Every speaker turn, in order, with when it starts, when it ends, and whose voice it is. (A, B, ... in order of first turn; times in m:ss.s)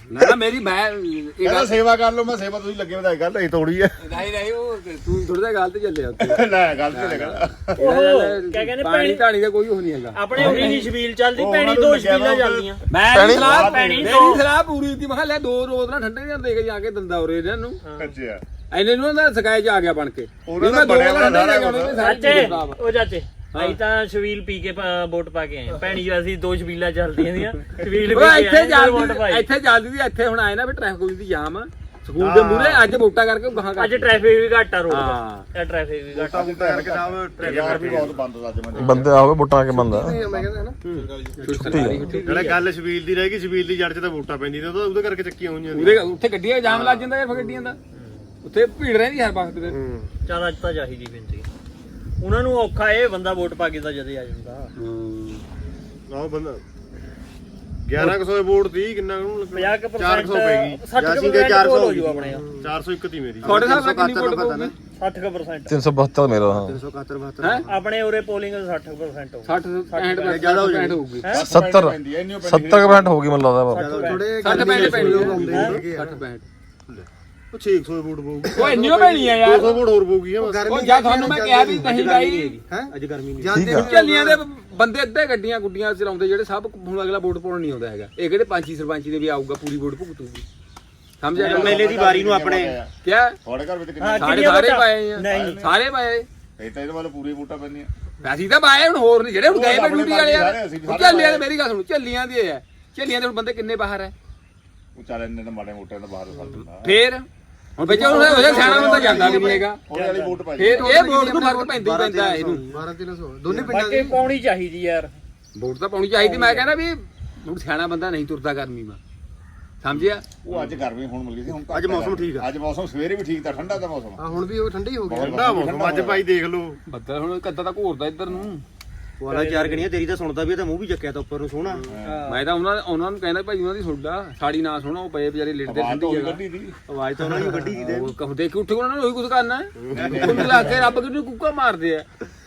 0:00.1-0:01.8 A
0:01.4-0:04.0 B
0:04.0-0:10.8 A
0:06.2-0:07.8 B
0:07.8-0:09.2 C
0:10.1-0:12.8 C
0:10.4-0:10.7 B
0:11.3-0:14.2 B
0:12.9-0:17.8 A
0:13.1-0:13.5 D
0:13.5-0:14.4 C
0:17.8-0:18.1 C
0:18.0-0:18.4 B
0:18.7-0:22.8 A
0:20.4-0:21.9 B
0:21.2-0:22.4 E
0:22.0-0:29.5 C
0:23.5-0:23.8 A
0:27.9-0:34.1 A
0:32.2-0:32.9 E
0:33.8-0:36.4 C
0:34.9-0:35.5 A
0:36.2-0:39.1 B
0:36.3-0:38.2 E
0:36.4-0:38.1 F
0:38.8-0:40.2 D
0:39.7-0:40.8 G
0:40.9-0:41.8 F
0:41.4-0:42.6 A
0:41.6-0:42.1 D
0:42.2-0:46.1 E
0:45.7-0:47.8 A
0:46.6-0:47.7 E
0:47.9-0:48.3 C
0:48.4-0:49.8 A
0:49.6-0:50.1 E
0:50.2-0:51.5 C
0:52.2-0:54.7 C
0:54.8-0:55.4 A
0:56.1-0:56.6 E
0:57.8-1:00.8 E
0:59.5-1:02.4 C
1:00.9-1:02.4 F
1:02.3-1:02.8 G
1:02.6-1:03.7 E
1:03.4-1:04.7 F
1:03.4-1:04.7 A
1:04.9-1:05.7 C
1:05.7-1:06.8 D
1:06.4-1:07.8 F
1:07.7-1:10.6 C
1:09.4-1:11.2 A
1:10.2-1:11.0 F
1:11.3-1:13.2 B
1:11.4-1:13.9 D
1:13.7-1:15.8 F
1:13.8-1:14.2 C
1:14.0-1:16.2 G
1:14.4-1:16.4 A
1:15.4-1:15.8 C
1:16.9-1:20.8 E
1:18.6-1:19.8 A
1:20.4-1:22.1 G
1:20.6-1:22.5 A
1:21.8-1:23.7 F
1:22.7-1:24.4 G
1:23.5-1:23.9 D
1:23.7-1:30.4 A
1:31.2-1:32.0 A
1:31.4-1:32.9 B
1:31.4-1:32.8 F
1:33.0-1:33.4 A
1:33.4-1:34.7 B
1:34.0-1:35.6 C
1:34.2-1:36.3 A
1:35.2-1:35.8 B
1:36.6-1:37.9 B
1:38.2-1:44.1 A
1:39.4-1:41.4 B
1:45.0-1:46.9 B
1:46.8-1:47.2 A
1:47.8-1:49.8 A
1:47.8-1:49.6 G
1:48.0-1:51.0 B
1:49.9-1:50.8 C
1:50.6-1:52.6 A
1:50.8-1:52.8 F
1:51.2-1:51.6 G
1:52.7-1:54.3 G
1:53.5-1:55.1 C
1:55.6-1:59.0 A
1:59.8-2:00.2 A
1:59.9-2:04.2 B
2:01.5-2:02.5 F
2:04.2-2:05.3 G
2:05.1-2:06.2 B
2:05.1-2:06.8 E
2:06.9-2:08.6 A
2:09.2-2:12.2 F
2:09.3-2:09.8 C
2:11.6-2:11.9 E
2:11.9-2:12.2 B
2:12.0-2:12.4 C
2:12.3-2:16.4 A
2:15.6-2:16.8 B
2:16.9-2:18.1 F
2:17.7-2:18.0 B
2:17.8-2:22.0 A
2:19.8-2:20.8 E
2:19.9-2:20.9 B
2:20.0-2:20.6 F